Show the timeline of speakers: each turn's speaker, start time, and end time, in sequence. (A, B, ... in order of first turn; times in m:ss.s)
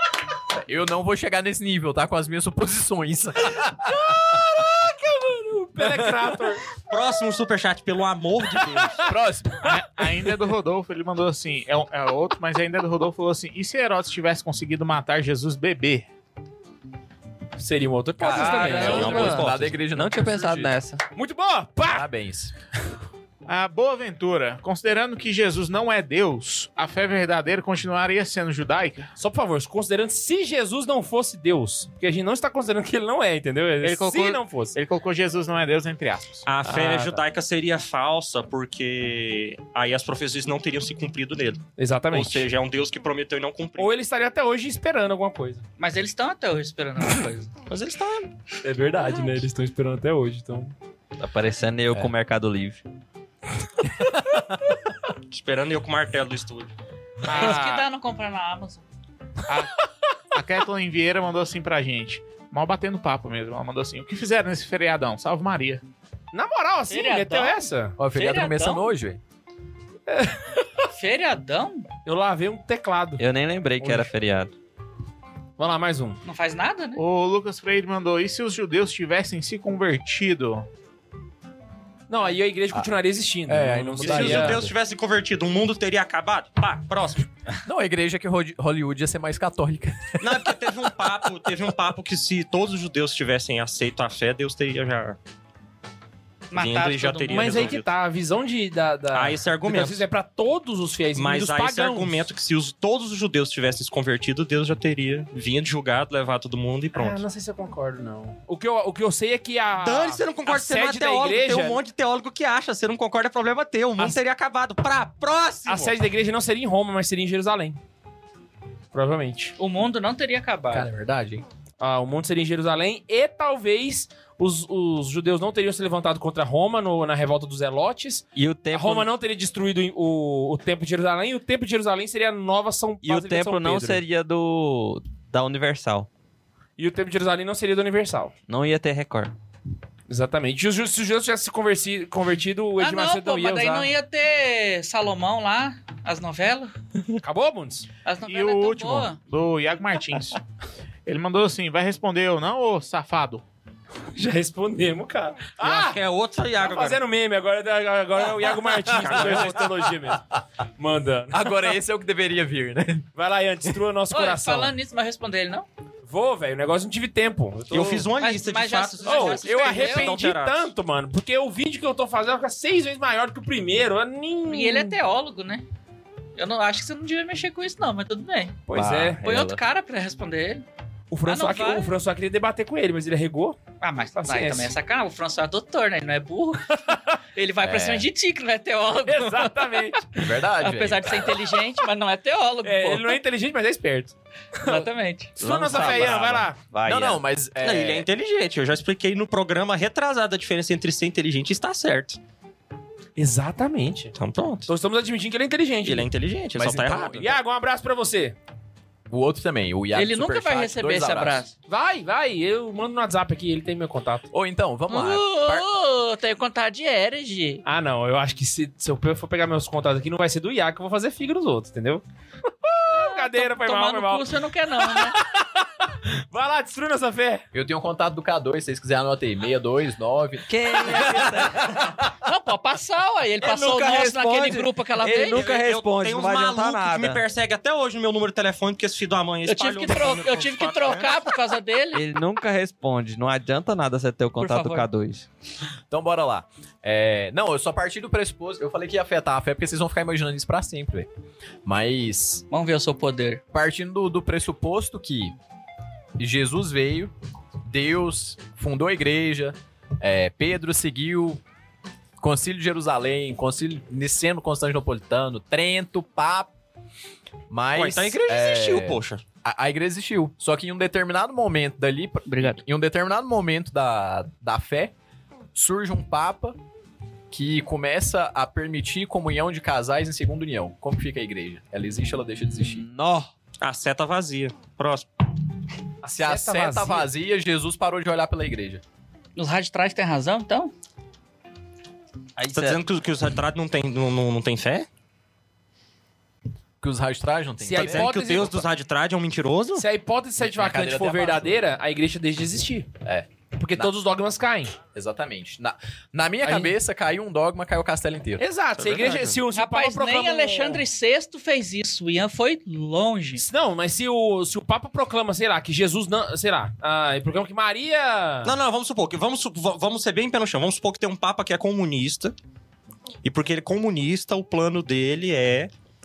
0:00.6-0:03.9 A
0:03.9-0:06.6 B
0:06.9-0:09.0 C
0:08.8-0:09.1 B
0:09.0-0:09.7 A
0:09.6-0:16.1 D
0:17.6-0:19.4 B
0:18.2-0:20.7 A
0:18.3-0:21.0 E
0:18.8-0:19.7 C
0:21.1-0:22.1 B
0:21.9-0:22.5 A
0:23.4-0:29.1 D
0:29.2-0:34.8 B
0:33.8-0:36.5 D
0:36.4-0:43.9 C
0:36.7-0:37.2 B
0:41.8-0:42.4 B
0:43.8-0:45.6 B
0:45.8-0:47.5 F
0:47.7-0:48.3 C
0:48.6-0:50.7 B
0:51.2-0:52.8 E
0:55.3-0:56.7 C
0:57.2-0:57.8 D
0:57.3-0:58.8 F
0:59.5-0:59.8 D
1:00.3-1:05.8 D
1:06.3-1:08.0 B
1:06.9-1:08.9 F
1:08.0-1:09.2 A
1:10.1-1:10.7 B
1:10.9-1:11.9 F
1:12.0-1:13.2 B
1:13.2-1:14.5 E
1:13.8-1:14.1 B
1:15.6-1:16.2 B
1:16.2-1:17.0 F
1:17.0-1:20.6 D
1:22.1-1:24.6 B
1:23.5-1:24.7 A
1:24.0-1:27.3 C
1:27.6-1:30.6 A
1:30.2-1:35.2 C
1:36.5-1:37.7 F
1:36.5-1:37.9 C
1:37.3-1:42.2 B
1:39.1-1:40.0 C
1:41.1-1:47.2 C
1:46.9-1:51.8 B
1:49.8-1:56.0 C
1:55.6-1:57.8 B
1:58.9-1:59.5 B
1:59.6-2:00.9 F
2:00.7-2:01.4 A
2:01.8-2:14.0 B
2:08.3-2:09.1 E
2:13.0-2:16.1 E
2:16.8-2:18.3 B
2:18.5-2:19.3 E
2:20.1-2:23.9 B
2:22.8-2:26.7 F
2:27.2-2:27.9 B
2:28.0-2:29.2 F
2:28.2-2:30.4 D
2:31.0-2:33.4 D
2:34.1-2:36.0 B
2:35.6-2:37.0 C
2:36.6-2:40.2 B
2:38.8-2:39.7 C
2:40.8-2:41.7 B
2:41.3-2:43.1 A
2:43.2-2:44.7 B
2:44.1-2:45.7 F
2:46.0-2:48.1 B
2:47.7-2:50.7 C
2:48.2-2:50.2 F
2:49.0-2:55.0 B
2:54.5-2:55.6 F
2:56.4-2:58.6 F
2:58.7-2:59.2 B
2:58.8-2:59.5 A
2:59.2-3:00.6 F
3:01.1-3:03.6 B
3:01.2-3:01.9 F
3:03.8-3:09.8 F
3:04.2-3:04.7 B
3:07.6-3:08.1 A
3:09.0-3:10.1 B
3:10.1-3:11.4 A
3:10.6-3:13.2 F
3:12.6-3:16.6 B
3:14.6-3:15.3 F
3:15.4-3:17.2 E
3:16.8-3:18.0 A
3:17.6-3:22.2 C
3:23.2-3:24.1 B
3:24.1-3:24.7 C
3:24.7-3:26.1 B
3:25.8-3:27.2 C
3:26.5-3:27.4 A
3:26.9-3:28.4 B
3:29.1-3:31.4 A
3:29.9-3:31.5 F
3:31.7-3:34.3 B
3:34.3-3:35.6 A
3:34.9-3:37.6 F
3:37.6-3:47.4 B
3:42.9-3:45.2 F
3:47.5-3:51.5 A
3:50.4-3:51.8 E
3:52.2-3:55.4 F
3:53.4-3:57.2 E
3:55.2-4:01.3 C
3:59.4-4:02.1 F
4:01.9-4:05.2 E
4:04.4-4:04.9 F
4:05.9-4:11.1 A
4:11.6-4:12.4 A
4:12.5-4:13.4 F
4:13.5-4:15.4 A
4:16.2-4:17.1 A
4:17.6-4:21.4 A
4:22.2-4:26.5 A
4:27.5-4:34.9 A
4:27.7-4:29.2 C
4:32.2-4:32.6 F
4:35.5-4:36.6 A
4:37.3-4:42.8 A
4:42.6-4:43.3 E
4:43.6-4:45.1 C
4:46.0-4:47.1 B
4:46.0-4:48.8 A
4:49.4-4:50.7 F
4:52.4-4:52.8 E
4:52.5-4:54.9 C
4:56.8-4:58.1 A
4:57.6-4:58.6 B
4:57.8-4:59.9 C
4:59.7-5:02.9 B
5:00.4-5:01.6 A
5:03.0-5:03.9 A
5:03.5-5:04.8 B
5:04.9-5:08.4 A
5:06.4-5:06.8 B
5:08.4-5:10.8 B
5:08.8-5:09.4 C
5:09.5-5:13.4 F
5:13.4-5:18.5 B
5:18.4-5:22.3 C
5:23.2-5:25.7 C